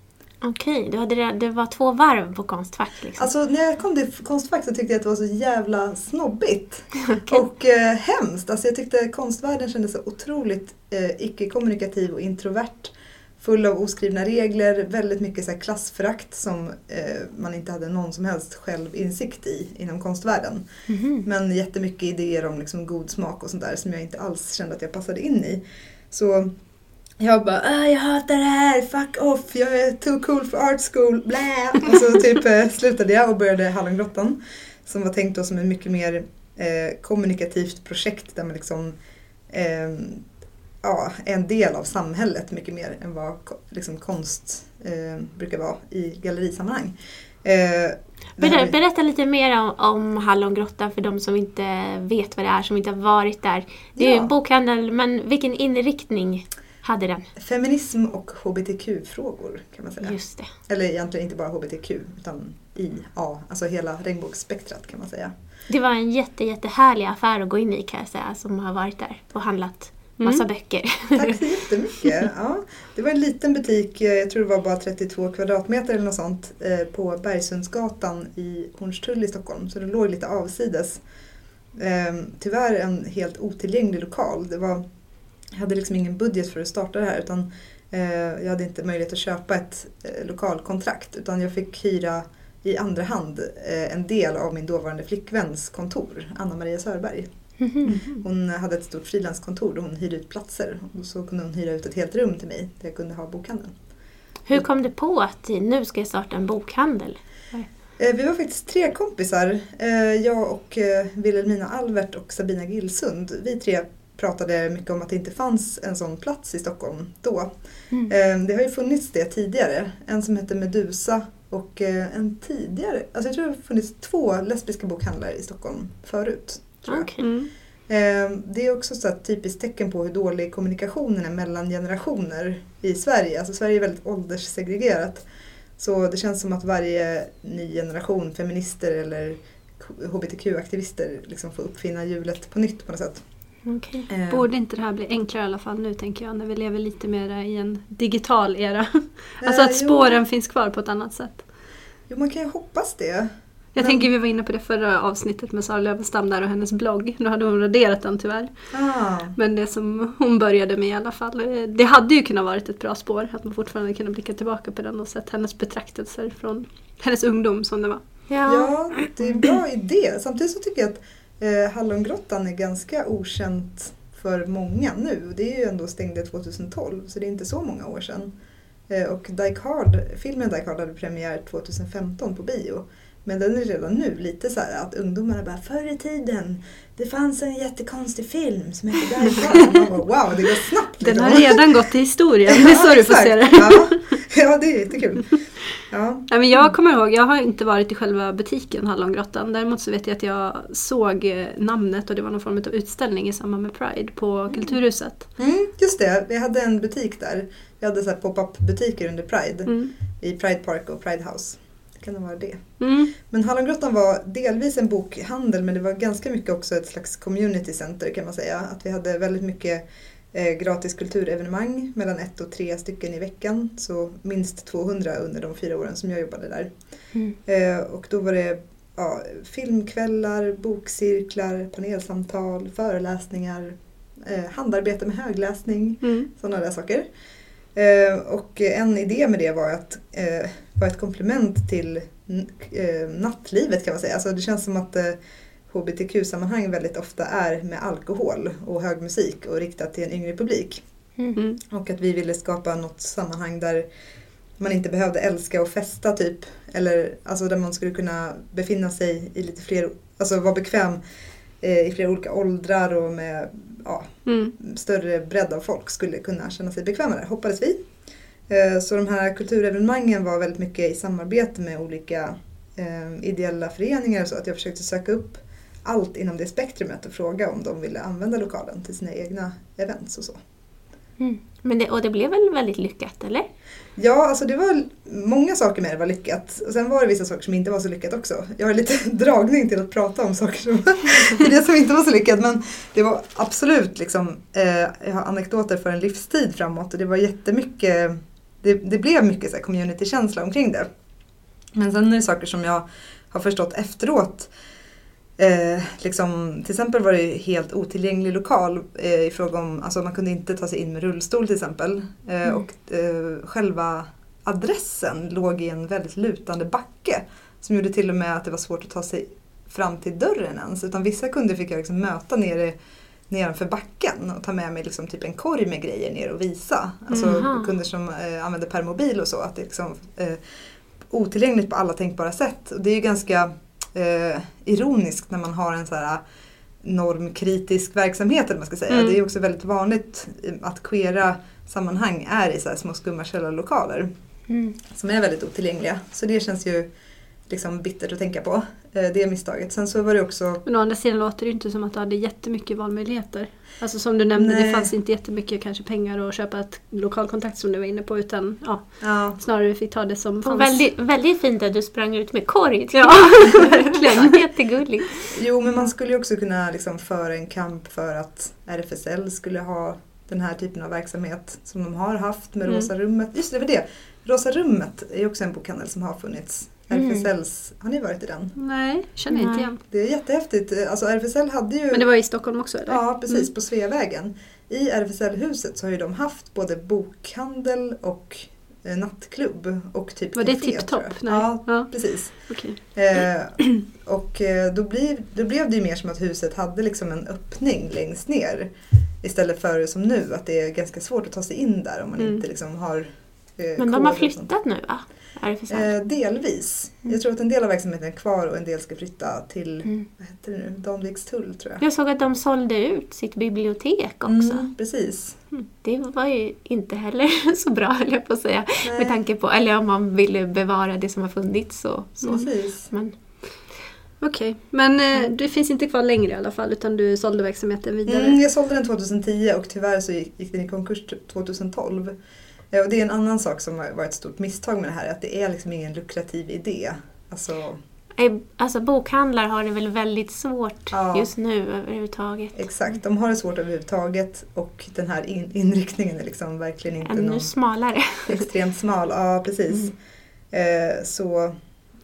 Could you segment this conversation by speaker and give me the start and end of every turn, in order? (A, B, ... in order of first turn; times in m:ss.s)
0:00.4-0:03.3 A
0:03.2-0:20.6 B
0:20.9-0:21.2 A
0:21.2-0:26.5 B
0:27.2-0:39.0 B
0:39.5-0:40.2 B
0:40.8-0:48.8 B
0:48.4-0:57.3 A
0:54.0-0:54.3 B
0:57.4-1:05.3 B
1:00.0-1:00.5 A
1:05.7-1:11.4 A
1:11.1-1:21.0 B
1:21.7-1:24.8 B
1:25.5-1:37.3 B
1:37.6-1:37.9 A
1:37.8-1:43.7 B
1:44.5-1:47.7 A
1:48.0-1:57.5 B
1:58.1-2:07.1 B
2:06.9-2:07.2 A
2:07.2-2:07.5 C
2:07.9-2:15.2 B
2:15.8-2:23.2 B
2:23.7-2:24.1 A
2:24.1-2:24.4 B
2:24.3-2:31.4 C
2:29.4-2:30.2 B
2:32.1-2:34.0 B
2:33.8-2:38.6 C
2:38.7-2:39.4 B
2:39.4-2:48.1 C
2:48.3-2:48.9 A
2:48.4-2:58.3 B
2:58.9-3:11.7 B
3:11.0-3:14.1 C
3:12.5-3:16.3 B
3:16.3-3:25.2 C
3:24.5-3:24.8 B
3:25.4-3:46.7 B
3:29.7-3:29.9 C
3:32.8-3:33.1 C
3:47.4-3:57.1 B
3:56.0-3:56.3 C
3:57.8-4:05.2 B
4:05.7-4:10.8 B
4:11.7-4:13.9 B
4:14.6-4:21.0 B
4:21.6-4:27.8 B
4:24.2-4:24.6 C
4:28.5-4:40.4 B
4:41.2-4:43.5 A
4:44.0-5:00.9 B
5:01.8-5:04.5 B
5:05.4-5:22.8 B
5:23.3-5:30.4 B
5:27.1-5:27.7 A
5:31.1-5:36.2 B
5:36.8-5:44.1 B
5:38.9-5:39.2 C
5:44.5-5:44.8 A
5:44.9-5:46.9 B
5:47.5-5:50.6 B
5:50.6-6:00.8 C
5:54.4-5:54.9 B
5:59.0-5:59.4 B
6:00.4-6:05.4 A
6:02.9-6:04.4 C
6:05.3-6:18.5 B
6:16.9-6:17.2 A
6:18.6-6:19.8 C
6:19.3-6:19.7 A
6:19.9-6:22.1 B
6:21.9-6:23.5 C
6:22.9-6:38.7 B
6:30.3-6:32.8 C
6:39.2-6:44.5 B
6:43.8-6:45.9 A
6:45.7-6:51.8 B
6:51.8-6:54.6 A
6:54.2-6:55.4 B
6:55.8-7:03.2 A
6:58.8-6:59.1 B
7:02.3-7:02.9 B
7:04.2-7:08.4 C
7:08.1-7:12.2 B
7:12.7-7:17.8 B
7:18.2-7:22.6 A
7:20.9-7:21.3 B
7:22.6-7:27.5 B
7:27.0-7:28.4 A
7:28.3-7:29.9 B
7:30.5-7:31.6 B